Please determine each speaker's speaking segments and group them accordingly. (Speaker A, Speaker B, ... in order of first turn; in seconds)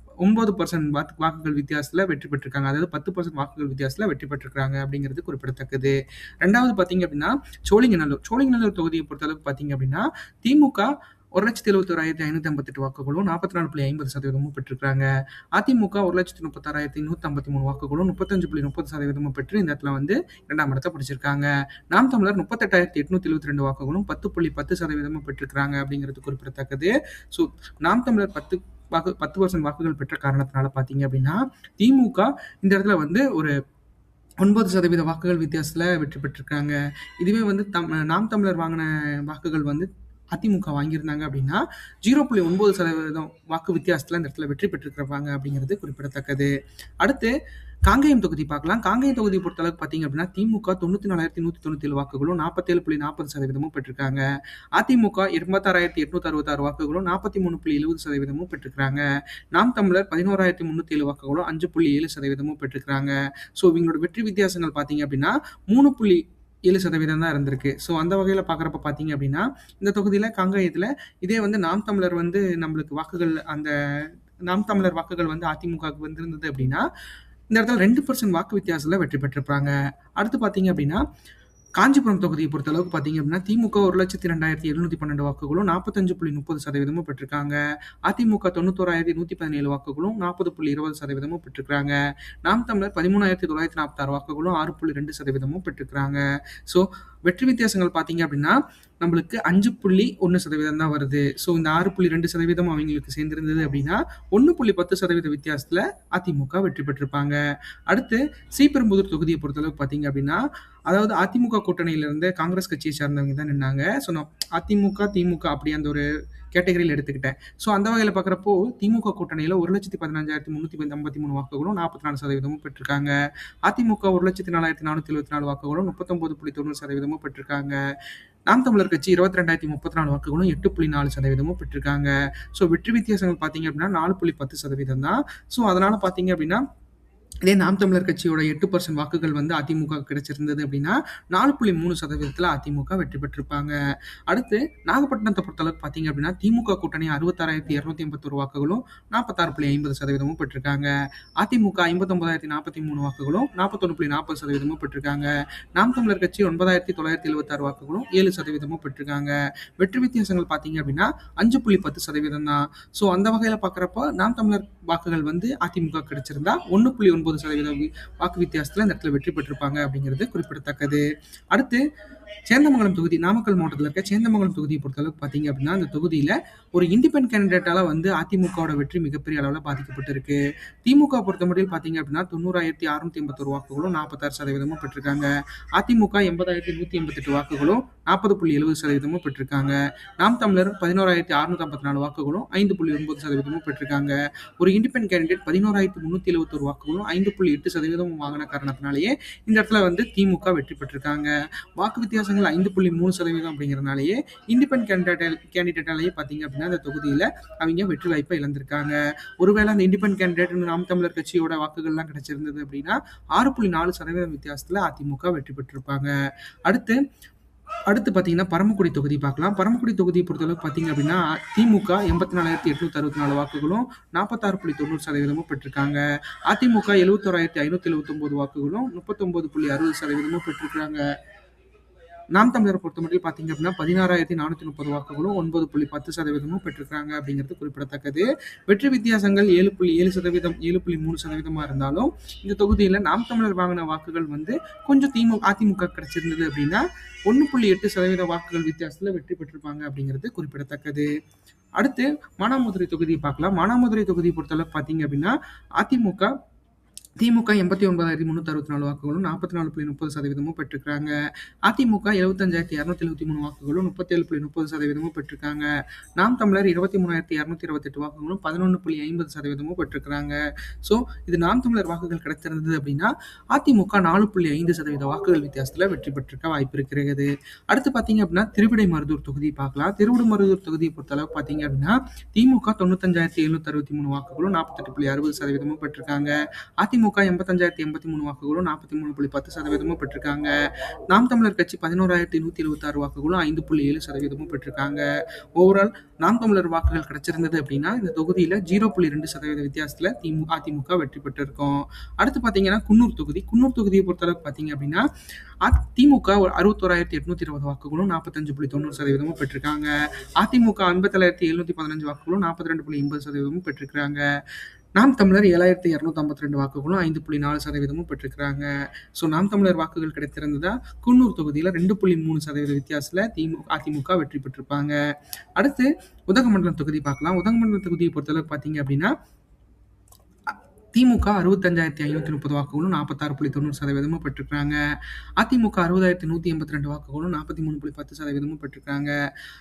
Speaker A: 0.2-33.5, 34.4-47.3, 47.9-54.2, 54.8-76.8, 77.5-81.0, 81.8-107.4, 107.9-123.1, 123.7-127.8, 128.5-136.6, 137.4-143.8, 144.3-171.8, 172.5-216.1, 216.7-217.0, 217.9-231.0, 232.3-251.1, 251.8-256.3, 257.2-261.1, 261.7-290.5, 291.1-305.0, 305.6-314.2, 315.0-325.0, 325.6-329.1, 330.5-334.8, 335.4-339.1